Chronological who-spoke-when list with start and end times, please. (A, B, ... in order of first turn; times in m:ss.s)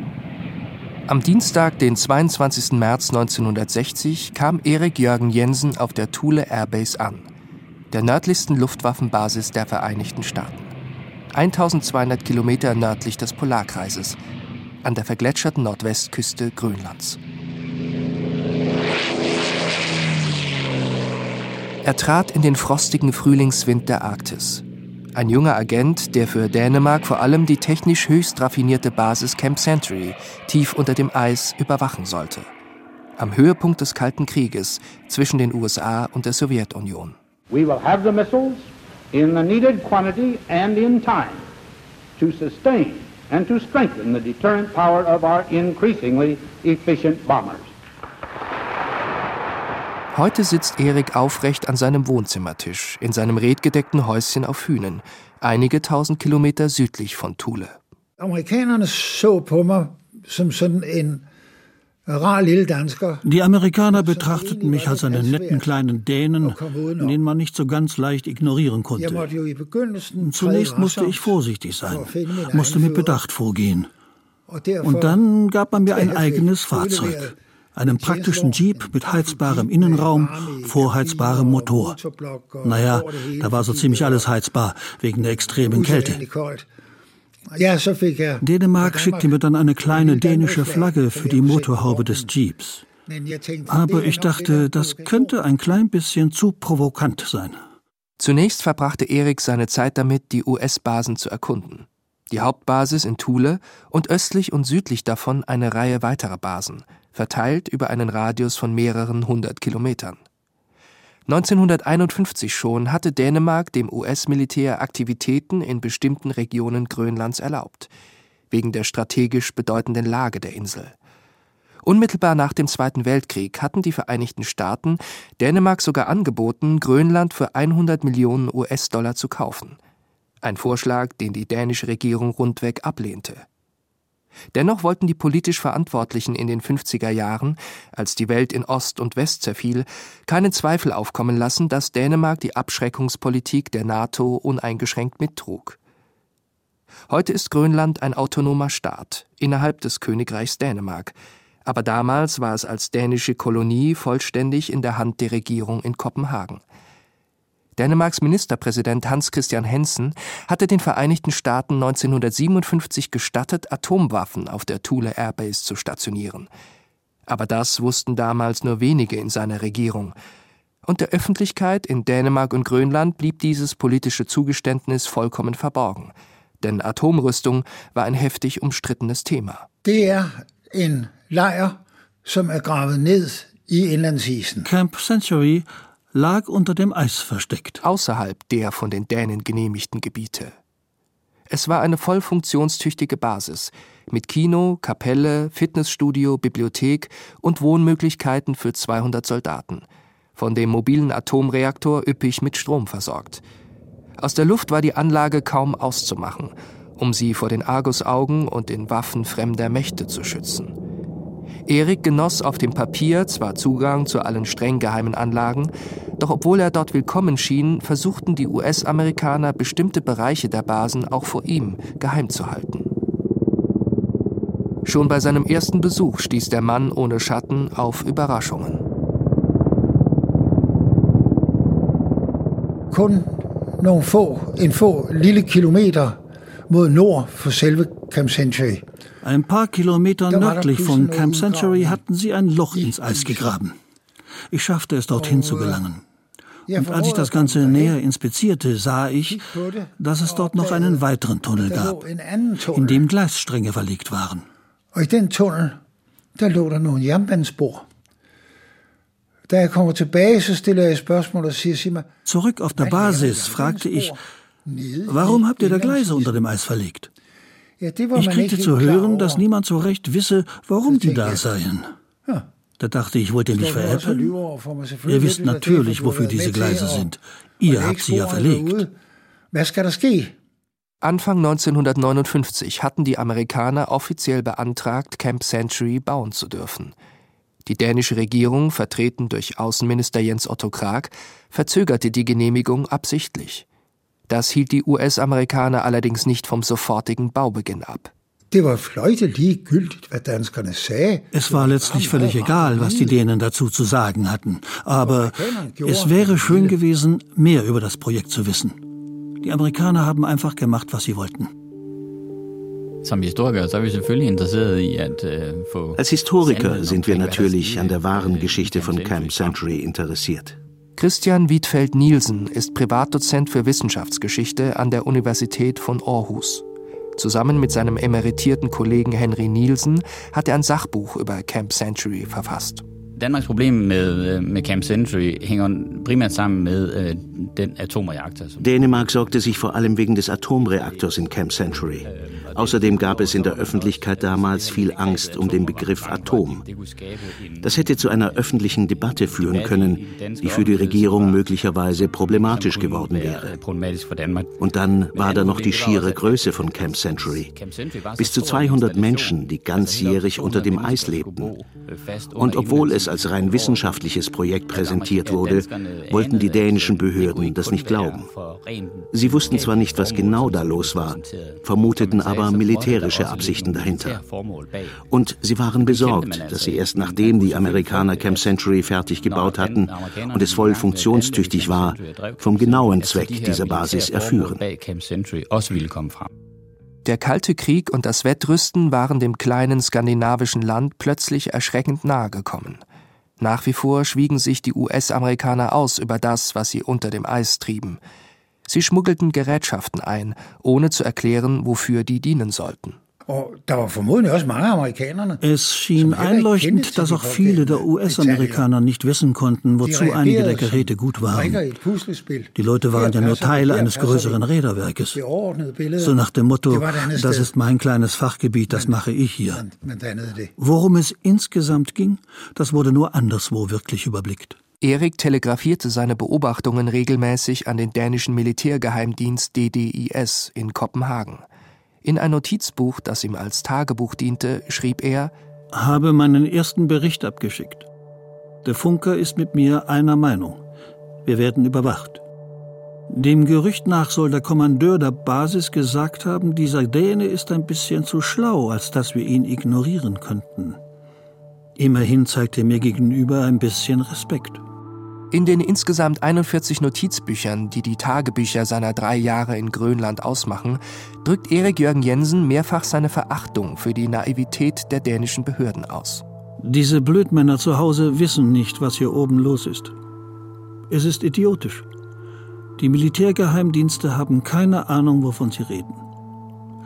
0:01.1-0:07.3 A
0:07.9-0:10.7 A
0:11.3-0:14.2 A
0:14.8-0:17.2 A
0:21.8-0:24.6 A
0:25.2-0:32.5 A
0:33.2-0:37.2 A
0:37.5-0:41.5 B
0:42.2-0:47.7 B
0:50.1-0:57.8 A
0:58.2-1:01.3 C
1:02.1-1:03.2 C
1:03.2-1:09.3 D
1:03.9-1:05.7 C
1:06.4-1:07.2 C
1:09.0-1:13.2 C
1:10.2-1:13.9 D
1:14.5-1:15.2 C
1:14.8-1:22.0 D
1:15.8-1:17.4 C
1:17.9-1:24.3 C
1:22.6-1:26.2 D
1:25.6-1:26.7 C
1:27.5-1:29.4 C
1:28.4-1:32.8 D
1:29.9-1:32.3 C
1:33.0-1:35.4 C
1:33.7-1:37.6 D
1:38.2-1:50.2 A
1:51.3-1:57.9 A
1:58.5-2:01.0 A
2:01.8-2:09.8 A
2:10.4-2:13.4 A
2:14.5-2:25.8 A
2:27.1-2:36.6 A
2:37.8-2:46.5 A
2:47.3-2:50.2 A
2:50.9-2:59.7 A
2:59.8-3:04.7 C
3:04.6-3:07.8 D
3:07.8-3:10.5 A
3:11.5-3:23.4 A
3:24.2-3:30.7 A
3:31.7-3:42.9 A
3:44.8-3:48.8 A
3:52.9-3:58.8 C
3:59.2-4:03.8 D
4:00.3-4:02.0 C
4:02.7-4:03.5 C
4:04.5-4:06.0 D
4:05.2-4:05.8 C
4:06.7-4:08.0 C
4:06.8-4:09.5 D
4:09.3-4:11.0 C
4:10.0-4:12.0 D
4:11.6-4:13.1 C
4:12.7-4:14.5 D
4:14.9-4:15.8 C
4:16.4-4:17.9 C
4:19.5-4:22.1 C
4:22.3-4:24.2 D
4:22.8-4:26.4 C
4:25.1-4:27.1 D
4:27.8-4:29.4 C
4:28.1-4:31.9 D
4:30.9-4:31.4 C
4:32.8-4:34.3 D
4:33.5-4:37.1 C
4:35.0-4:38.9 D
4:37.6-4:38.9 C
4:39.5-4:40.3 C
4:41.0-4:46.9 A
4:47.7-4:53.6 A
4:54.3-4:58.1 A
4:58.5-5:03.2 C
5:01.3-5:08.8 D
5:05.0-5:06.8 C
5:09.4-5:11.5 D
5:13.0-5:19.6 E
5:16.0-5:20.6 F
5:21.0-5:26.6 A
5:27.2-5:32.8 A
5:33.2-5:39.6 E
5:38.6-5:46.6 F
5:40.8-5:41.3 E
5:42.0-5:51.4 E
5:47.6-5:53.6 F
5:52.2-5:54.6 E
5:54.6-5:57.5 F
5:55.1-6:04.0 E
5:58.2-6:01.5 F
6:02.4-6:08.3 F
6:04.7-6:15.0 E
6:09.1-6:14.2 F
6:15.1-6:24.6 F
6:15.8-6:26.3 E
6:27.0-6:32.8 A
6:33.4-6:38.0 A
6:38.7-6:43.0 A
6:43.3-6:45.4 C
6:45.4-6:51.6 D
6:46.0-6:48.7 C
6:49.8-6:54.4 C
6:52.6-6:55.2 D
6:55.1-6:56.2 C
6:56.0-6:59.6 D
6:56.7-6:57.5 C
6:58.7-6:59.0 C
6:59.5-7:00.5 C
7:00.6-7:04.6 D
7:04.8-7:11.4 A
7:12.0-7:15.3 A
7:15.7-7:17.9 D
7:18.6-7:20.6 D
7:21.2-7:22.2 D
7:23.1-7:30.8 D
7:31.8-7:34.6 D
7:35.3-7:46.2 A
7:46.6-7:49.9 D
7:50.9-7:51.9 D
7:52.8-7:56.0 D